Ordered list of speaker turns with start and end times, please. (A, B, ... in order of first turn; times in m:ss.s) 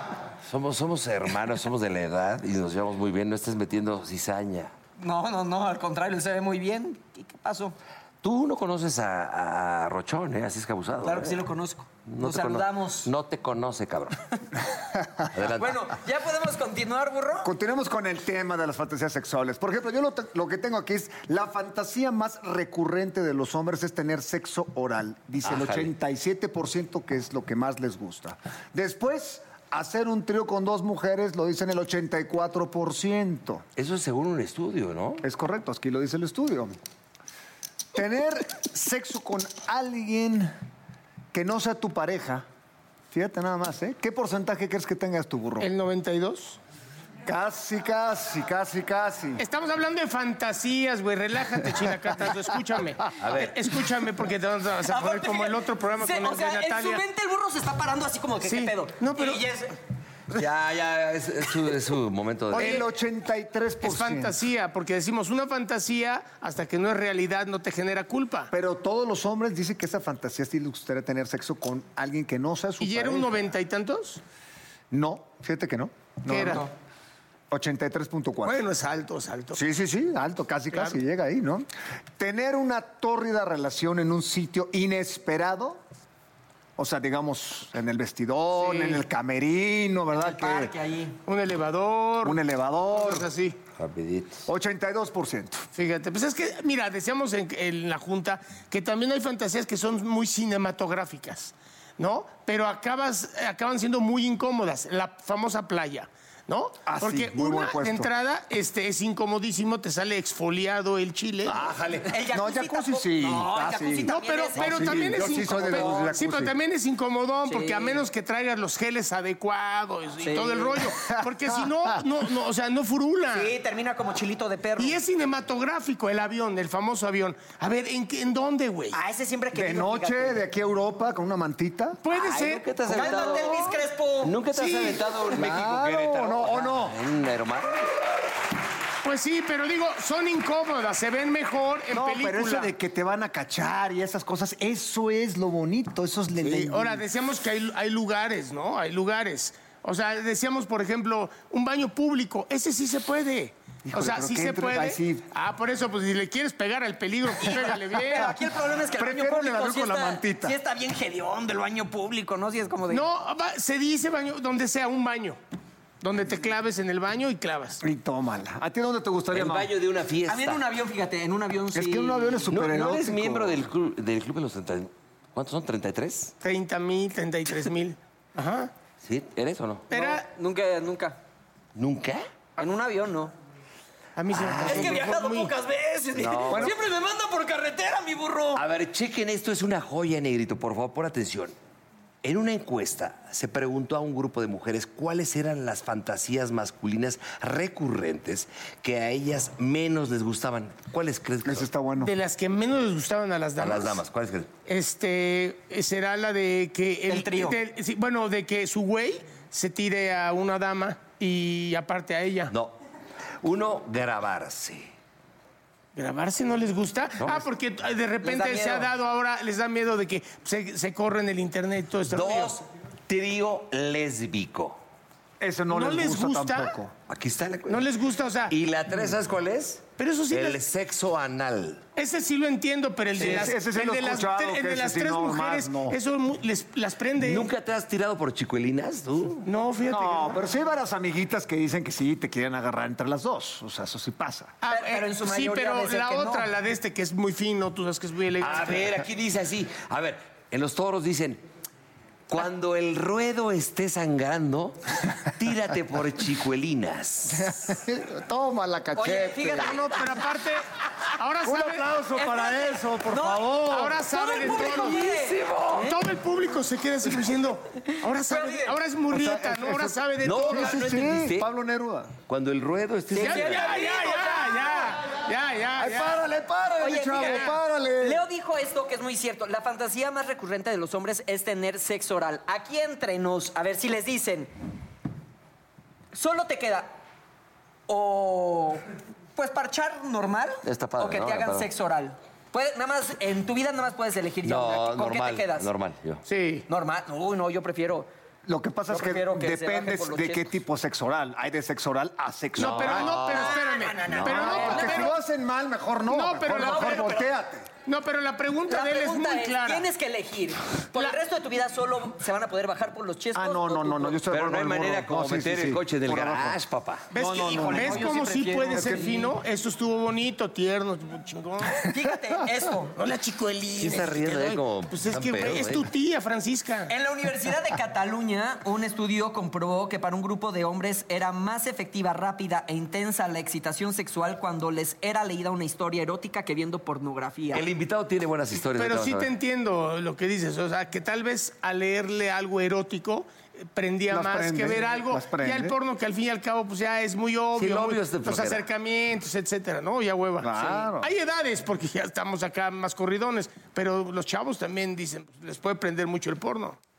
0:00.4-0:04.7 A
0:05.0-0:07.8 B
0:08.2-0:11.4 A
0:11.0-0:13.1 B
0:12.1-0:14.2 A
0:15.3-0:15.8 A
0:15.6-0:17.5 B
0:17.4-0:33.6 C
0:25.4-0:25.9 A
0:33.8-0:35.2 A
0:35.2-0:36.8 C
0:37.9-0:40.5 C
0:41.3-0:42.4 C
0:43.1-0:45.7 C
0:45.6-0:46.6 D
0:47.2-0:49.4 C
0:49.4-0:57.0 D
0:53.2-0:53.6 A
0:54.8-0:59.7 B
0:58.4-0:59.4 D
1:00.3-1:02.8 A
1:02.5-1:04.4 C
1:02.5-1:02.8 D
1:03.8-1:08.5 D
1:08.5-1:13.5 C
1:12.8-1:14.2 D
1:14.9-1:16.7 C
1:16.3-1:16.7 D
1:17.5-1:18.6 C
1:18.4-1:19.6 D
1:19.5-1:21.7 C
1:22.2-1:25.8 C
1:26.8-1:30.7 C
1:28.5-1:29.0 D
1:30.2-1:31.2 B
1:31.2-1:32.4 D
1:32.2-1:33.2 C
1:32.9-1:33.6 D
1:33.8-1:34.4 A
1:34.4-1:35.6 C
1:35.7-1:51.6 D
1:46.8-1:48.1 C
1:51.4-1:52.1 A
1:52.1-1:56.1 B
1:52.3-1:56.5 C
1:54.1-2:03.5 D
1:57.4-1:58.0 B
2:00.2-2:00.8 B
2:03.3-2:05.0 B
2:04.8-2:09.0 D
2:08.9-2:10.4 B
2:09.5-2:12.0 C
2:12.0-2:13.8 D
2:12.1-2:13.6 A
2:12.8-2:14.4 B
2:14.2-2:17.9 A
2:14.6-2:15.0 D
2:15.3-2:17.0 C
2:19.0-2:22.7 D
2:21.9-2:27.0 C
2:26.4-2:38.3 D
2:33.8-2:35.2 C
2:37.4-2:43.0 B
2:38.9-2:40.6 C
2:42.9-2:45.4 D
2:46.0-2:47.8 D
2:47.8-2:49.7 C
2:49.3-2:50.6 A
2:50.3-2:52.4 B
2:51.7-2:53.6 C
2:52.5-2:56.3 A
2:56.4-2:58.7 D
2:59.0-2:59.9 A
2:59.9-3:00.2 D
2:59.9-3:01.2 B
3:01.7-3:02.3 A
3:02.6-3:03.3 B
3:04.2-3:05.5 D
3:04.3-3:05.0 A
3:04.6-3:08.6 B
3:06.2-3:06.7 A
3:06.2-3:06.7 C
3:08.5-3:11.5 A
3:12.2-3:21.7 A
3:21.4-3:22.1 C
3:22.0-3:24.0 D
3:23.6-3:24.5 A
3:24.7-3:32.5 D
3:27.1-3:27.6 B
3:32.5-3:32.8 A
3:33.4-3:34.9 A
3:35.9-3:42.6 D
3:37.2-3:37.5 A
3:38.2-3:38.9 B
3:42.1-3:44.8 A
3:45.4-3:46.9 C
3:45.7-3:46.7 D
3:47.1-3:47.9 A
3:47.7-3:48.5 D
3:48.5-3:51.8 A
3:50.0-3:50.6 D
3:52.0-3:57.5 D
3:53.2-3:56.0 C
3:53.2-3:53.5 A
3:57.2-3:59.4 A
3:59.4-4:00.4 D
3:59.8-4:04.5 C
4:04.6-4:08.9 D
4:04.6-4:06.5 B
4:08.4-4:11.4 A
4:12.3-4:17.5 A
4:17.3-4:19.8 C
4:19.0-4:20.2 B
4:19.6-4:20.6 D
4:21.2-4:22.0 D
4:21.4-4:24.8 C
4:22.1-4:23.6 B
4:23.6-4:25.1 D
4:24.1-4:25.9 B
4:24.5-4:25.9 A
4:25.7-4:30.9 D
4:27.9-4:28.8 B
4:29.1-4:32.1 C
4:30.2-4:31.5 A
4:32.3-4:33.9 A
4:33.1-4:34.9 B
4:33.2-4:36.2 D
4:35.8-4:38.2 C
4:36.8-4:44.5 B
4:37.2-4:37.5 D
4:46.1-4:47.0 B
4:47.9-4:48.8 B
4:49.4-4:55.7 B
4:50.6-4:51.7 A
4:54.4-4:56.2 A
4:56.2-4:56.6 D
4:56.7-4:58.1 B
4:58.4-5:03.2 C
4:58.9-5:00.5 B
5:02.6-5:04.9 A
5:02.6-5:05.1 D
5:03.1-5:05.1 B
5:04.3-5:07.7 C
5:06.1-5:07.2 D
5:06.5-5:07.3 B
5:07.8-5:09.9 D
5:08.7-5:14.2 B
5:13.3-5:16.6 C
5:14.3-5:17.1 A
5:17.1-5:21.8 D
5:17.1-5:18.1 C
5:17.2-5:19.3 B
5:18.8-5:19.0 C
5:21.8-5:22.9 B
5:23.0-5:26.9 D
5:23.8-5:25.9 A
5:26.9-5:37.6 B
5:37.5-5:39.3 A
5:38.7-5:56.8 D
5:44.1-5:45.8 C
5:47.6-5:48.6 A
5:50.4-5:51.1 C